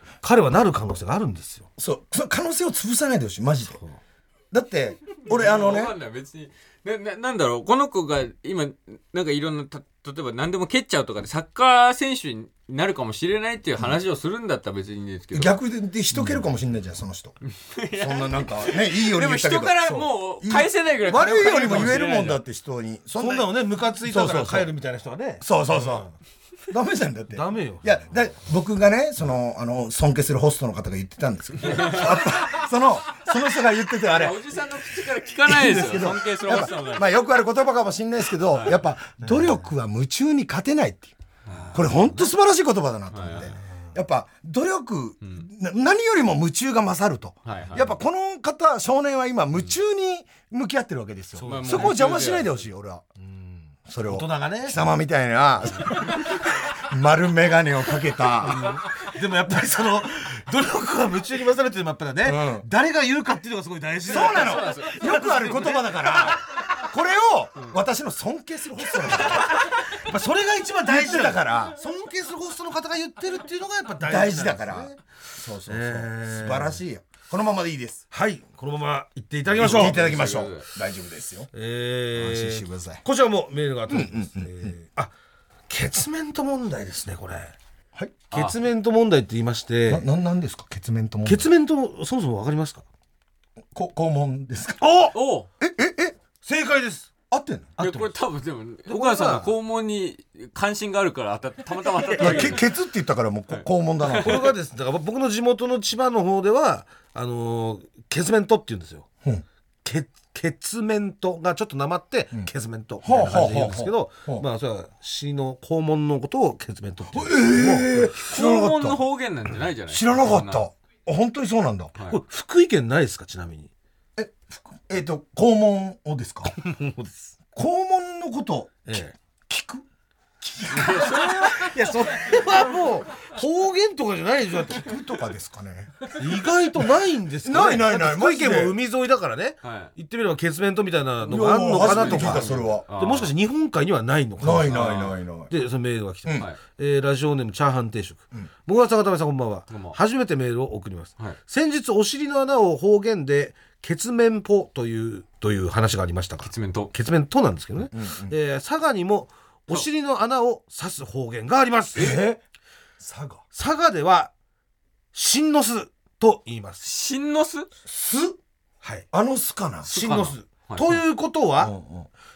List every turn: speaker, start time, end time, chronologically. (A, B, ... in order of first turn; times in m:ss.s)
0:00.2-0:01.7 A
0:01.8-0:03.8 B
0:03.7-0:04.0 A
0:04.5-0:06.0 B
0:05.3-0:15.6 C
0:15.3-0:17.4 B
0:16.1-0:16.4 A
0:17.5-0:22.4 C
0:18.0-0:24.7 B
0:23.2-0:26.1 A
0:25.4-0:26.1 B
0:26.7-0:34.4 B
0:27.3-0:28.0 A
0:31.7-0:32.3 C
0:34.1-0:37.2 C
0:35.4-0:41.2 B
0:39.2-0:39.6 A
0:41.5-0:42.3 A
0:41.7-0:53.0 B
0:43.1-0:43.5 C
0:43.5-0:43.9 A
0:47.4-0:47.9 C
0:51.4-0:52.0 A
0:51.4-0:52.7 C
0:53.2-0:54.8 A
0:53.9-0:58.8 B
0:58.4-1:06.3 A
1:02.2-1:02.7 B
1:04.1-1:06.3 C
1:04.1-1:09.5 B
1:09.0-1:15.0 A
1:10.8-1:11.8 B
1:14.0-1:18.0 B
1:15.7-1:16.8 A
1:18.1-1:20.2 A
1:19.6-1:21.5 B
1:19.6-1:20.7 C
1:21.5-1:25.1 A
1:22.2-1:23.0 B
1:23.9-1:24.7 B
1:25.7-1:27.6 A
1:28.3-1:30.1 A
1:29.9-1:31.5 B
1:31.3-1:32.8 A
1:33.7-1:35.0 B
1:34.8-1:35.2 A
1:35.1-1:35.5 C
1:35.6-1:36.2 B
1:36.4-1:37.1 A
1:37.3-1:37.8 B
1:37.8-1:38.1 A
1:37.8-1:42.6 C
1:38.9-1:39.5 A
1:42.1-1:42.6 A
1:42.2-1:44.5 B
1:44.2-1:49.1 A
1:49.8-1:58.0 A
1:53.0-1:54.4 B
1:57.1-1:59.0 B
1:58.2-2:00.7 C
1:59.9-2:01.9 B
2:02.0-2:03.7 A
2:04.2-2:06.6 B
2:06.6-2:07.3 A
2:07.6-2:09.8 B
2:08.9-2:09.2 A
2:10.4-2:11.7 B
2:10.7-2:11.7 C
2:10.8-2:14.9 A
2:14.7-2:16.1 B
2:16.2-2:42.2 A
2:17.4-2:18.8 B
2:19.6-2:19.9 C
2:21.2-2:22.8 B
2:21.8-2:23.3 C
2:24.4-2:25.5 B
2:24.7-2:25.2 C
2:29.7-2:30.0 C
2:36.4-2:36.9 C
2:37.9-2:38.4 B
2:42.0-2:42.4 B
2:43.0-2:43.4 B
2:43.5-2:44.3 A
2:45.1-2:46.9 A
2:46.8-2:47.7 C
2:47.9-2:48.4 B
2:48.8-2:49.1 A
2:49.1-2:49.9 B
2:49.9-2:51.7 A
2:49.9-2:51.0 C
2:51.6-2:52.1 B